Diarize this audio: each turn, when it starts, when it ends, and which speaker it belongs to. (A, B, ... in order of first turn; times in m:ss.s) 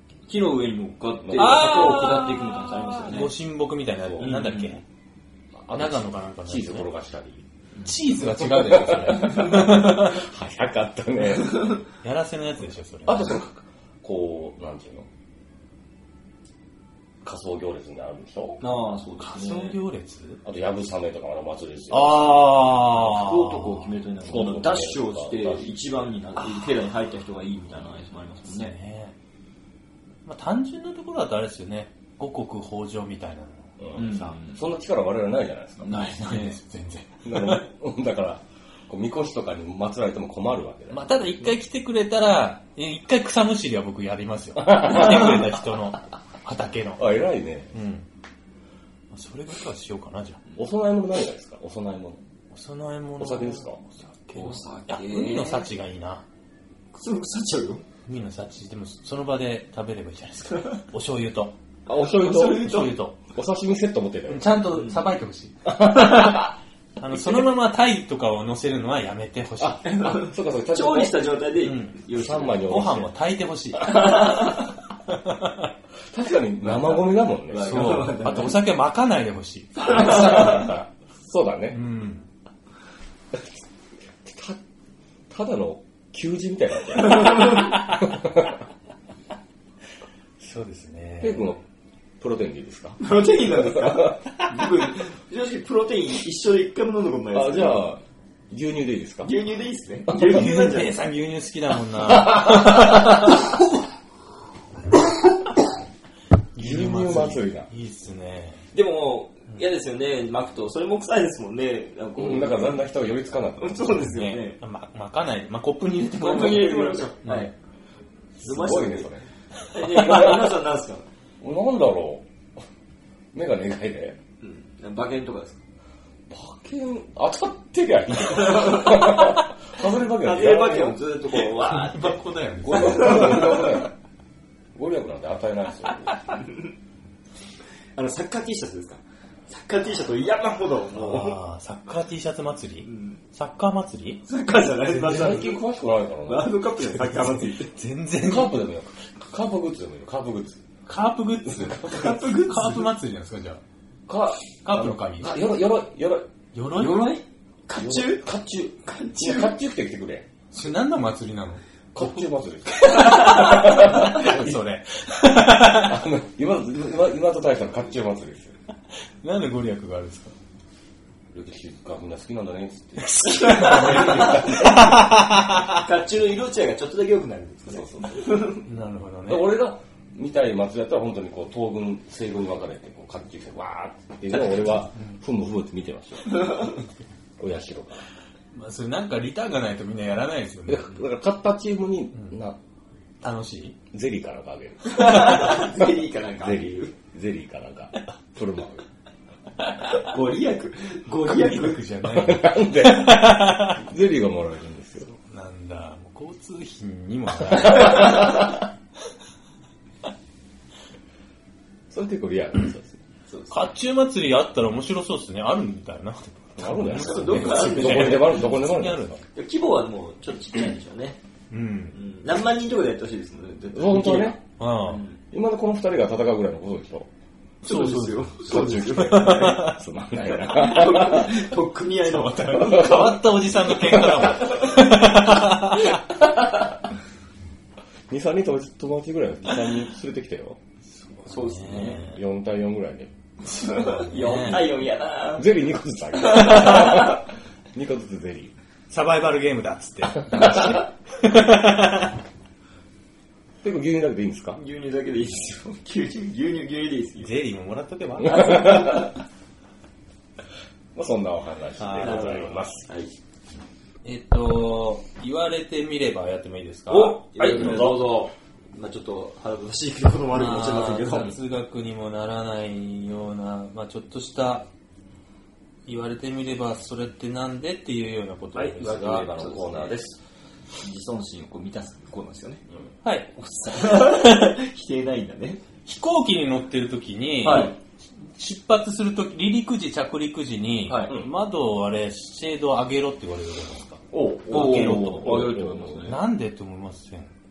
0:00.3-0:03.3 A
0:01.2-0:02.2 B
0:01.3-0:04.8 C
0:04.0-0:04.3 B
0:04.2-0:04.8 A
0:05.5-0:07.4 B
0:05.7-0:06.9 C
0:07.8-0:10.2 C
0:08.2-0:11.7 B
0:12.0-0:13.4 C
0:13.0-0:15.1 B
0:17.2-0:18.6 B
0:18.6-0:19.8 A
0:19.2-0:20.4 C
0:20.4-0:22.3 B
0:21.9-0:23.9 C
0:22.7-0:28.8 A
0:24.2-0:25.7 B
0:26.4-0:26.7 C
0:28.4-0:29.1 C
0:30.2-0:34.3 C
0:33.8-0:36.4 B
0:34.0-0:34.6 A
0:35.8-0:37.6 C
0:37.2-0:41.0 B
0:40.9-0:47.2 C
0:44.6-0:45.7 B
0:47.0-0:47.7 B
0:47.7-0:48.0 C
0:49.1-0:50.4 C
0:50.6-0:52.2 B
0:52.5-0:56.2 C
0:53.2-0:53.8 B
0:54.3-0:55.7 A
0:56.9-0:57.8 A
0:58.0-1:01.5 C
1:01.9-1:04.5 B
1:02.2-1:03.2 C
1:02.3-1:02.9 A
1:04.3-1:09.9 C
1:04.7-1:05.0 A
1:05.6-1:06.5 B
1:07.2-1:07.4 B
1:09.6-1:11.2 B
1:09.8-1:12.8 A
1:11.6-1:12.0 C
1:12.1-1:13.1 B
1:12.6-1:14.6 C
1:13.9-1:14.7 A
1:15.1-1:15.6 C
1:16.1-1:18.1 B
1:16.6-1:18.6 A
1:17.6-1:20.8 C
1:19.8-1:20.7 A
1:19.9-1:21.8 B
1:21.7-1:22.3 C
1:24.2-1:24.6 B
1:25.3-1:28.6 B
1:27.1-1:27.8 A
1:30.4-1:31.5 C
1:31.2-1:31.6 B
1:32.2-1:34.1 B
1:33.0-1:37.8 A
1:37.3-1:39.3 B
1:39.2-1:41.0 A
1:40.2-1:43.5 C
1:41.9-1:43.3 B
1:46.5-1:48.6 C
1:46.6-1:47.7 B
1:48.7-1:52.8 A
1:52.2-1:54.1 B
1:53.6-1:54.6 A
1:54.0-1:57.5 C
1:56.2-1:57.5 A
1:56.3-1:57.1 B
1:58.4-1:59.2 B
1:58.4-1:59.1 A
1:59.7-2:01.1 A
2:00.0-2:00.5 B
2:01.4-2:02.2 B
2:03.3-2:04.2 B
2:04.4-2:05.6 A
2:06.3-2:11.0 B
2:08.5-2:09.1 A
2:10.2-2:13.8 A
2:11.3-2:13.6 C
2:12.6-2:13.9 B
2:14.7-2:16.1 B
2:18.0-2:21.4 A
2:20.9-2:24.2 C
2:22.8-2:23.2 A
2:24.2-2:25.6 A
2:24.9-2:26.5 B
2:26.2-2:27.7 A
2:26.9-2:28.7 C
2:28.2-2:30.6 B
2:30.9-2:33.6 C
2:31.5-2:32.2 B
2:31.8-2:32.9 A
2:34.1-2:36.2 B
2:34.6-2:35.4 C
2:36.5-2:37.2 C
2:36.7-2:39.5 A
2:37.7-2:40.3 B
2:40.5-2:42.2 C
2:41.9-2:44.6 B
2:42.9-2:46.0 C
2:42.9-2:43.4 A
2:45.6-2:48.6 B
2:49.2-2:50.3 C
2:51.3-2:55.0 B
2:53.0-2:55.8 C
2:53.4-2:54.4 A
2:55.7-2:58.6 A
2:57.7-2:58.6 B
2:58.6-2:59.5 C
2:59.3-3:06.7 B
3:06.3-3:06.8 A
3:07.4-3:08.0 B
3:08.5-3:11.0 C
3:10.7-3:12.6 B
3:13.2-3:13.8 C
3:13.9-3:18.8 B
3:14.8-3:16.9 A
3:20.0-3:21.9 A
3:21.2-3:23.8 C
3:22.0-3:25.1 B
3:25.0-3:28.5 C
3:27.5-3:28.5 B
3:31.9-3:33.0 B
3:33.3-3:33.7 A
3:33.5-3:39.2 C
3:36.6-3:39.2 B
3:36.8-3:38.5 A
3:39.3-3:41.2 A
3:41.5-3:42.0 C
3:41.9-3:45.2 A
3:43.7-3:44.4 B
3:44.6-3:45.0 C
3:45.3-3:47.1 B
3:47.6-3:49.6 A
3:47.6-3:49.8 C
3:48.5-3:51.4 B
3:50.4-3:53.2 A
3:52.1-3:56.0 C
3:52.6-3:53.2 B
3:55.9-3:56.7 B
3:58.1-4:00.6 B
4:01.0-4:02.2 C
4:01.2-4:02.0 A
4:01.9-4:03.1 B
4:03.4-4:07.2 A
4:03.5-4:04.7 C
4:05.4-4:08.5 B
4:08.9-4:12.2 C
4:13.6-4:14.6 B
4:14.5-4:17.3 A
4:17.2-4:19.0 C
4:18.2-4:19.1 B
4:20.9-4:22.8 B
4:21.8-4:22.5 C
4:22.0-4:23.1 A
4:24.0-4:27.8 C
4:26.9-4:31.4 A
4:27.3-4:28.0 B
4:30.3-4:34.7 C
4:35.9-4:39.3 C
4:38.5-4:40.1 B
4:38.9-4:40.0 A
4:40.8-4:42.6 A
4:43.0-4:43.3 C
4:43.3-4:45.6 A
4:43.9-4:44.5 C
4:45.8-4:55.5 C
4:47.4-4:47.8 A
4:50.9-4:51.1 A
4:54.1-4:56.1 B
4:54.5-4:56.2 A
4:56.0-4:57.3 C